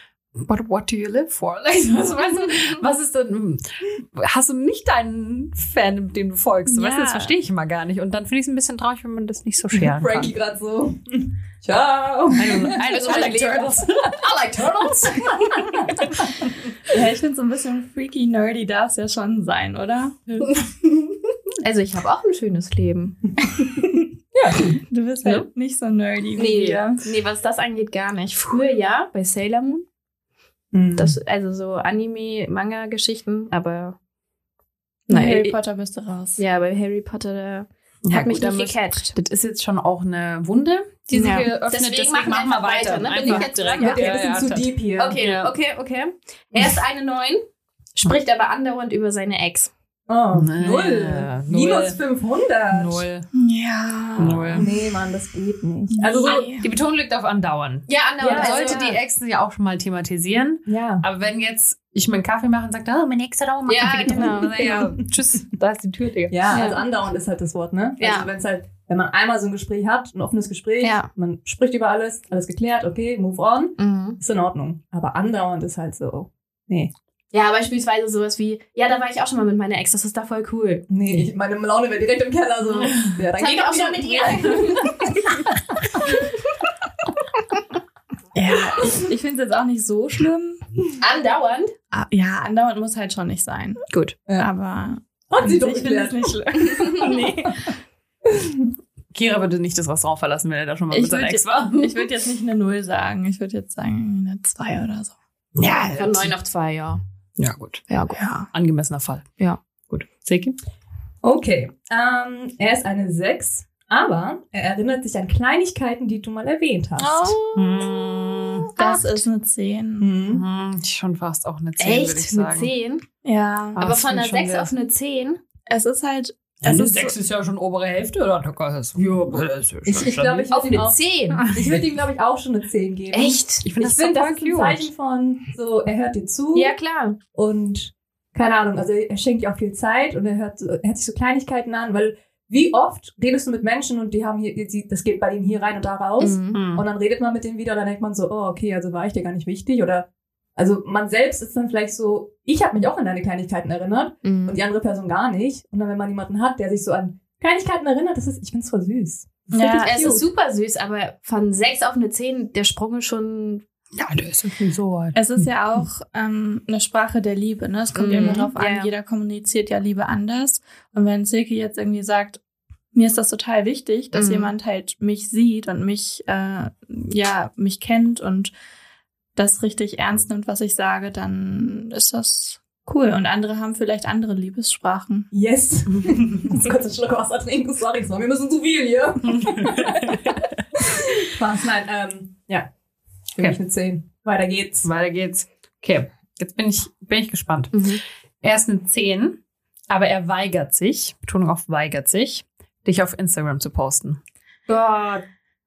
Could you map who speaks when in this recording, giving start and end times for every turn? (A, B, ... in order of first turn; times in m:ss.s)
0:00.4-0:10.3 A
0:02.2-0:02.8 B
0:06.7-0:07.4 C
0:09.7-0:12.8 D
0:12.3-0:14.2 A
0:12.8-0:15.8 B
0:14.9-0:16.1 D
0:16.9-0:20.5 C
0:21.6-0:23.4 B
0:23.6-0:24.0 C
0:24.3-0:24.8 D
0:24.9-0:27.0 C
0:26.4-0:29.8 B
0:30.7-0:31.2 D
0:31.0-0:34.0 B
0:35.1-0:35.6 B
0:35.1-0:36.4 C
0:36.4-0:39.1 B
0:38.0-0:45.5 A
0:41.1-0:41.4 C
0:41.2-0:44.3 B
0:43.8-0:45.2 D
0:45.0-0:47.4 B
0:48.0-0:49.7 B
0:50.1-0:53.0 D
0:50.3-0:52.0 A
0:52.7-0:53.3 A
0:53.3-0:54.7 C
0:54.2-0:54.7 A
0:54.5-0:56.4 D
0:55.9-0:56.7 C
0:56.2-1:06.6 A
0:57.9-0:59.0 B
0:58.2-0:58.8 D
1:00.7-1:01.0 D
1:03.7-1:04.9 B
1:04.1-1:05.1 D
1:06.3-1:16.9 D
1:06.5-1:06.8 B
1:08.0-1:08.3 B
1:10.8-1:11.1 B
1:13.8-1:14.2 B
1:17.3-1:20.8 B
1:20.9-1:25.4 D
1:23.3-1:25.3 B
1:28.3-1:30.6 C
1:31.0-1:31.7 B
1:31.9-1:33.8 C
1:33.9-1:34.2 B
1:34.4-1:37.7 C
1:35.3-1:37.0 D
1:38.3-1:38.7 D
1:39.1-1:42.1 A
1:40.9-1:45.1 C
1:45.6-1:46.3 A
1:46.0-1:47.0 B
1:47.4-1:47.8 A
1:47.9-1:48.4 B
1:48.1-1:48.5 C
1:48.5-1:49.3 A
1:49.9-1:50.6 A
1:51.2-1:57.3 D
1:57.0-1:59.2 B
1:57.5-1:58.7 A
1:58.8-2:00.1 C
2:00.0-2:00.4 D
2:00.3-2:02.7 A
2:01.8-2:03.0 B
2:03.2-2:03.9 C
2:03.8-2:04.7 A
2:03.8-2:05.4 B
2:05.7-2:07.1 C
2:06.6-2:10.5 A
2:09.8-2:16.7 D
2:10.5-2:11.5 B
2:11.3-2:11.8 A
2:13.1-2:13.7 B
2:13.6-2:14.9 A
2:16.5-2:17.2 B
2:17.3-2:40.2 D
2:26.2-2:26.6 B
2:26.5-2:26.8 A
2:34.2-2:34.6 B
2:39.5-2:40.2 C
2:39.7-2:43.6 B
2:43.9-2:45.4 A
2:45.1-2:52.4 C
2:47.9-2:48.9 B
2:52.9-2:58.5 C
2:54.1-2:54.5 B
2:59.3-3:05.3 C
3:05.3-3:12.7 D
3:05.9-3:06.4 A
3:09.3-3:10.4 A
3:13.3-3:14.9 D
3:14.8-3:24.2 A
3:17.7-3:18.0 B
3:24.7-3:25.2 B